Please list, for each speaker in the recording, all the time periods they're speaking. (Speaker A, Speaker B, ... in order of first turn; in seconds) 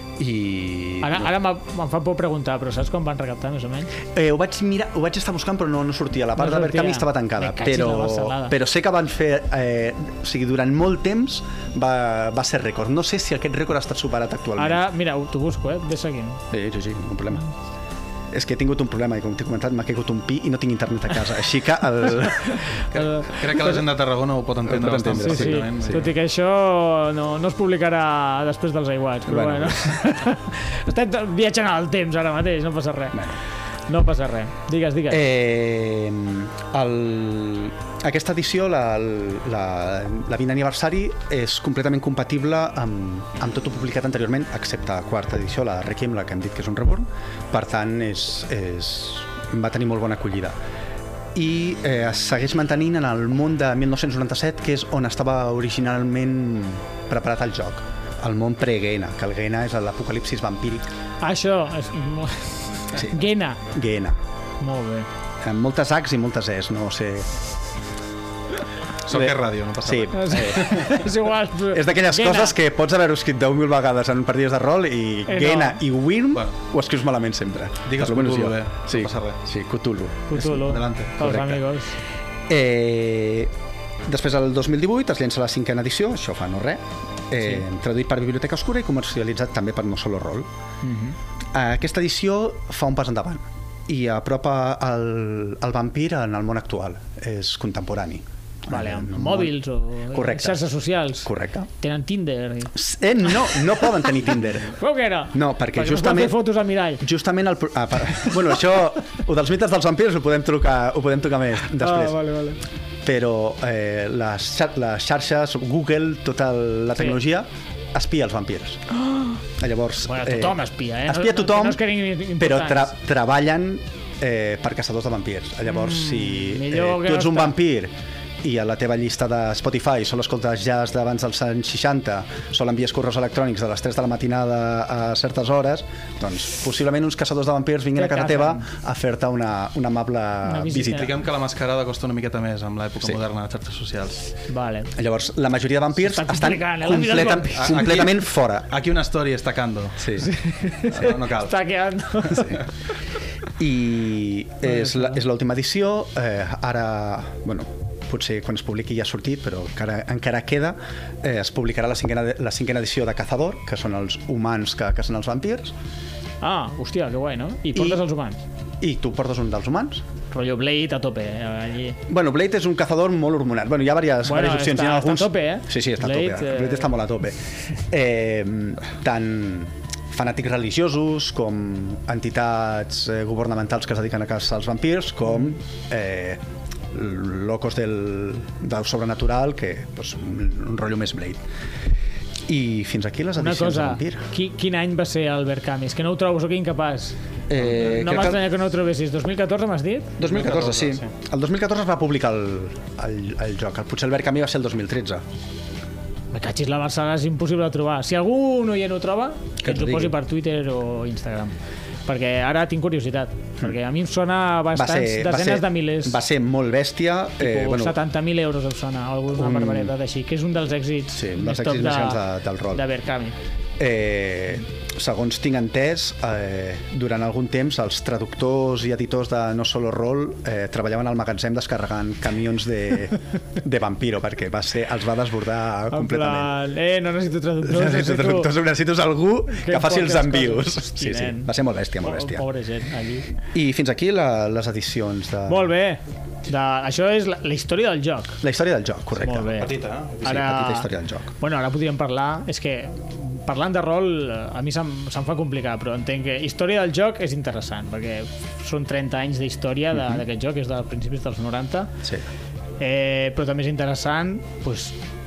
Speaker A: 0.2-1.3, 4.1-14.8, 16.5-17.5, 18.3-22.8, 24.6-26.1, 29.2-30.1, 33.1-33.4, 35.1-50.5, 51.3-60.8, 62.9-64.2, 65.4-67.3, 69.1-71.1, 71.7-80.7, 81.2-81.6, 82.5-83.5, 84.1-90.5, 91.5-100.7, 101.2-101.7, 102.7-104.8, 105.3-106.4, 107.0-112.2, 113.0-118.8, 119.6-121.8, 122.4-141.1, 144.9-148.7, 150.0-150.3, 152.3-152.6, 153.6-165.7, 167.7-168.0, 168.8-170.0, 172.1-186.4, 186.9-191.4, 192.5-194.2, 197.5-198.4, 200.2-205.2, 209.6-210.2, 214.7-218.0, 219.3-219.9, 221.1-222.8, 223.8-236.5, 237.6-242.4, 243.5-245.7, 248.4-249.7, 250.2-251.3
Speaker B: 1.0-3.9, 6.4-8.6, 14.6-16.4, 22.6-23.6, 25.1-33.2, 33.9-35.2, 61.2-63.6, 64.6-65.1, 70.1-72.5, 75.3-75.8, 80.3-81.9, 90.8-91.2, 98.7-102.7, 104.8-107.0, 111.8-112.6, 118.9-119.4, 120.0-122.9, 125.7-127.6, 137.9-138.7, 140.4-141.1, 144.5-144.9, 146.0-147.7, 150.2-152.6, 154.7-155.1, 166.4-168.4, 170.3-172.0, 174.2-176.9, 193.4-200.2, 206.3-211.5, 212.1-216.2, 217.4-223.3, 235.9-238.5, 239.5-243.3, 245.5-248.4, 249.2-261.9, 262.8-265.0
Speaker C: 22.9-26.1, 69.0-70.8, 77.9-79.4, 80.5-81.2, 140.9-144.3, 147.5-150.2, 150.9-151.6, 200.2-201.1, 249.5-250.4